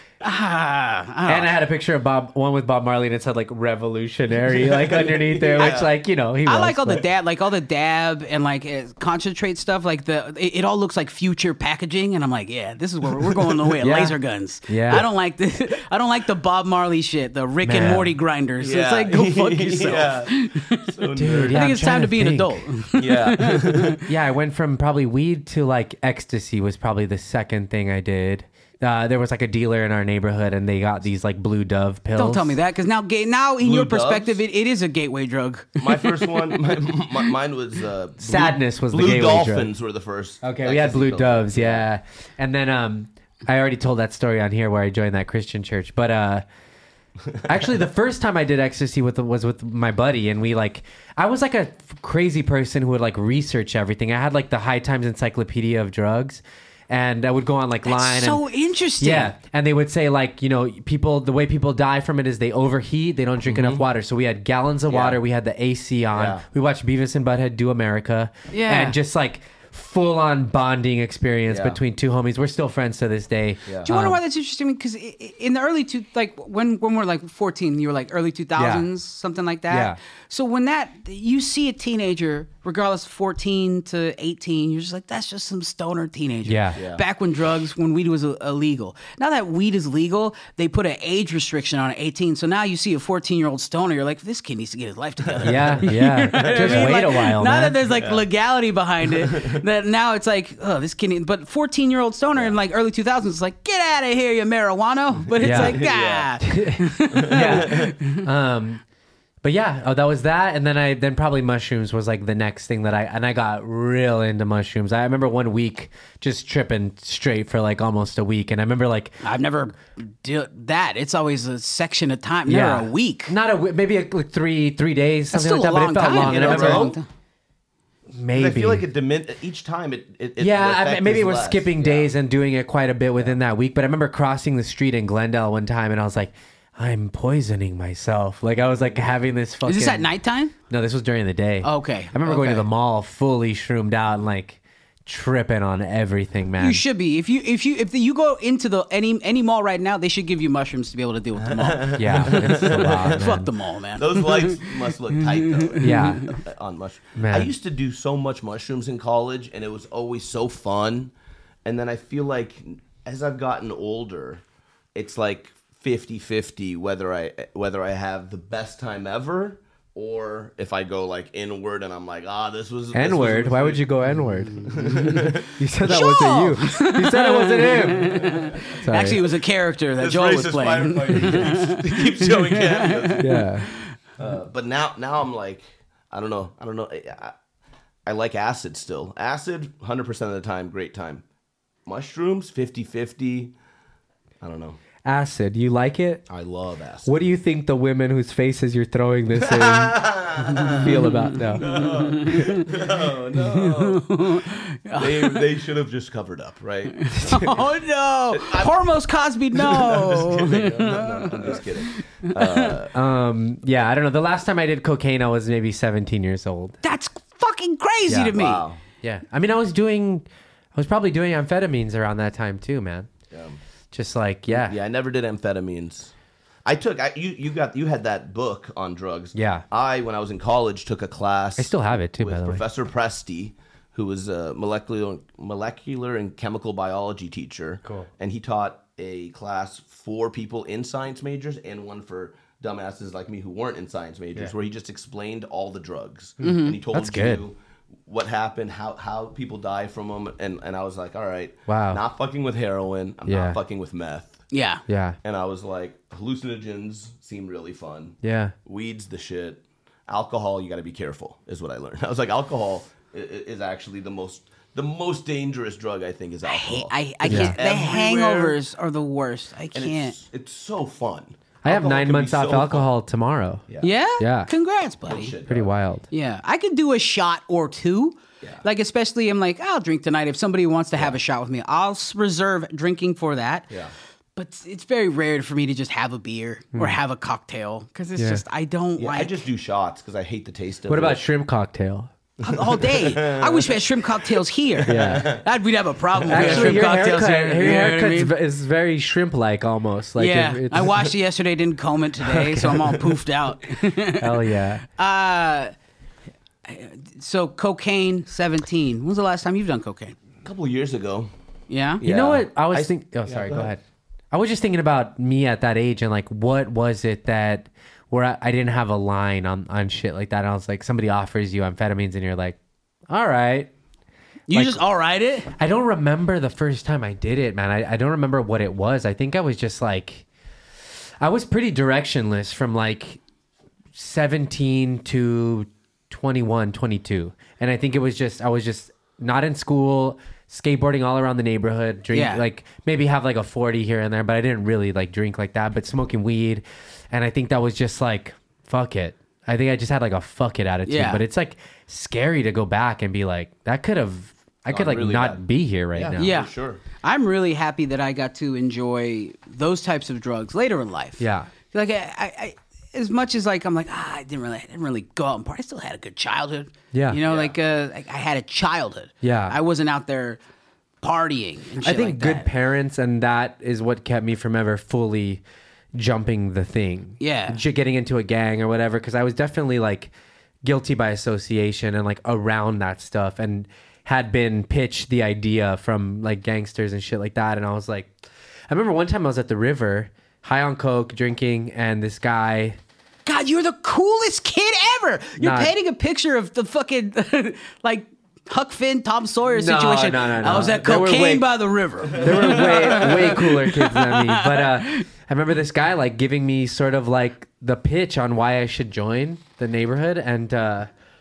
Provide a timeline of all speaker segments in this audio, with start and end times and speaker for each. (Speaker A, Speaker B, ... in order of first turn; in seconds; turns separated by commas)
Speaker A: 0.2-1.5, Speaker B: 1.3-7.0, Speaker C: 4.5-5.9, Speaker A: 5.6-5.8, Speaker A: 6.5-21.0, Speaker C: 13.1-13.7, Speaker B: 13.8-15.1, Speaker B: 17.6-18.1, Speaker C: 18.6-21.7, Speaker B: 21.2-22.6, Speaker A: 21.5-24.0, Speaker C: 22.9-24.0, Speaker B: 24.1-32.6, Speaker A: 32.2-36.5, Speaker C: 33.6-34.4, Speaker C: 35.8-41.9, Speaker B: 38.2-39.7, Speaker B: 40.4-46.5, Speaker B: 47.5-58.4, Speaker A: 57.9-59.3, Speaker B: 59.0-74.2, Speaker C: 63.5-63.8, Speaker C: 64.9-65.2, Speaker C: 66.1-66.4, Speaker A: 68.5-69.0, Speaker C: 71.5-71.8, Speaker C: 73.7-73.9, Speaker A: 73.8-108.2, Speaker B: 78.6-78.9, Speaker B: 79.7-80.0, Speaker B: 86.5-86.8, Speaker C: 86.8-87.0, Speaker C: 95.2-97.0, Speaker B: 95.4-97.8, Speaker C: 97.9-98.3, Speaker C: 99.1-99.6, Speaker C: 105.3-106.3, Speaker B: 105.4-105.8, Speaker B: 106.4-108.8, Speaker C: 107.1-107.9, Speaker B: 109.4-119.2, Speaker A: 119.2-123.3, Speaker B: 122.5-127.0, Speaker A: 125.3-127.1, Speaker C: 126.1-127.0, Speaker B: 128.1-128.8, Speaker C: 128.3-132.1, Speaker B: 130.4-140.1, Speaker A: 139.7-140.5, Speaker B: 140.7-146.8, Speaker A: 141.6-142.7, Speaker A: 146.6-156.4, Speaker C: 151.4-153.4, Speaker B: 152.0-153.5, Speaker C: 153.9-161.1, Speaker B: 155.8-156.3, Speaker B: 157.2-157.5, Speaker C: 161.7-164.4, Speaker C: 164.9-173.8, Speaker B: 172.9-179.2, Speaker A: 174.5-175.1, Speaker C: 174.6-175.5, Speaker A: 175.8-183.9, Speaker C: 178.1-178.7, Speaker C: 180.0-183.4, Speaker B: 183.2-183.7, Speaker C: 184.2-187.3, Speaker C: 188.1-191.2, Speaker C: 191.9-193.5, Speaker C: 194.4-194.8, Speaker B: 195.0-196.2, Speaker C: 196.3-197.2, Speaker B: 197.1-201.7, Speaker C: 199.4-207.6, Speaker A: 200.6-202.7, Speaker A: 203.4-205.4, Speaker A: 206.9-212.8, Speaker C: 208.3-208.7, Speaker C: 209.6-212.9, Speaker B: 212.9-216.8, Speaker A: 216.8-218.6, Speaker B: 218.1-218.4, Speaker C: 218.3-218.8, Speaker B: 219.0-223.1, Speaker C: 223.3-223.6, Speaker B: 223.9-224.8, Speaker C: 224.5-226.1, Speaker C: 226.7-247.6, Speaker B: 229.3-229.7, Speaker B: 231.6-232.6, Speaker A: 246.4-246.8, Speaker B: 246.4-247.4, Speaker C: 248.1-254.4, Speaker B: 251.7-252.0, Speaker B: 253.3-253.6, Speaker A: 254.5-254.8, Speaker B: 254.9-255.2, Speaker C: 255.2-268.6, Speaker B: 258.2-258.5, Speaker A: 266.4-270.2, Speaker B: 267.3-267.6, Speaker C: 269.7-272.9, Speaker B: 271.6-273.7, Speaker C: 273.7-273.9, Speaker A: 273.8-275.3, Speaker B: 274.2-274.5, Speaker C: 275.1-275.7, Speaker B: 275.5-276.1, Speaker A: 276.1-283.7, Speaker A: 284.4-289.4, Speaker B: 288.2-288.4, Speaker C: 289.0-291.2, Speaker B: 290.9-292.1, Speaker A: 292.4-298.3, Speaker C: 292.4-294.2, Speaker C: 294.8-295.5, Speaker B: 294.9-295.3, Speaker C: 296.1-296.9, Speaker B: 296.3-301.1, Speaker A: 300.2-305.7, Speaker B: 302.2-303.2, Speaker B: 304.2-304.8, Speaker A: 306.6-310.1, Speaker C: 310.4-311.3, Speaker A: 311.7-312.0, Speaker C: 312.0-313.7, Speaker B: 312.0-322.6, Speaker B: 323.1-323.7, Speaker A: 324.5-325.5, Speaker B: 324.5-324.8, Speaker B: 325.6-330.2, Speaker B: 331.2-333.2, Speaker B: 333.9-356.3, Speaker A: 342.1-342.4, Speaker A: 350.9-351.2, Speaker C: 354.7-356.8, Speaker A: 356.2-370.4, Speaker B: 361.2-361.5, Speaker B: 366.9-367.2, Speaker C: 367.3-367.6, Speaker B: 369.2-369.6, Speaker A: 371.0-372.5, Speaker B: 371.8-375.4, Speaker B: 375.9-380.1, Speaker A: 377.2-377.6, Speaker B: 380.6-388.1, Speaker B: 388.7-392.8, Speaker A: 393.3-405.1, Speaker B: 395.4-395.7, Speaker B: 399.5-401.5, Speaker B: 402.1-410.9, Speaker C: 402.1-403.2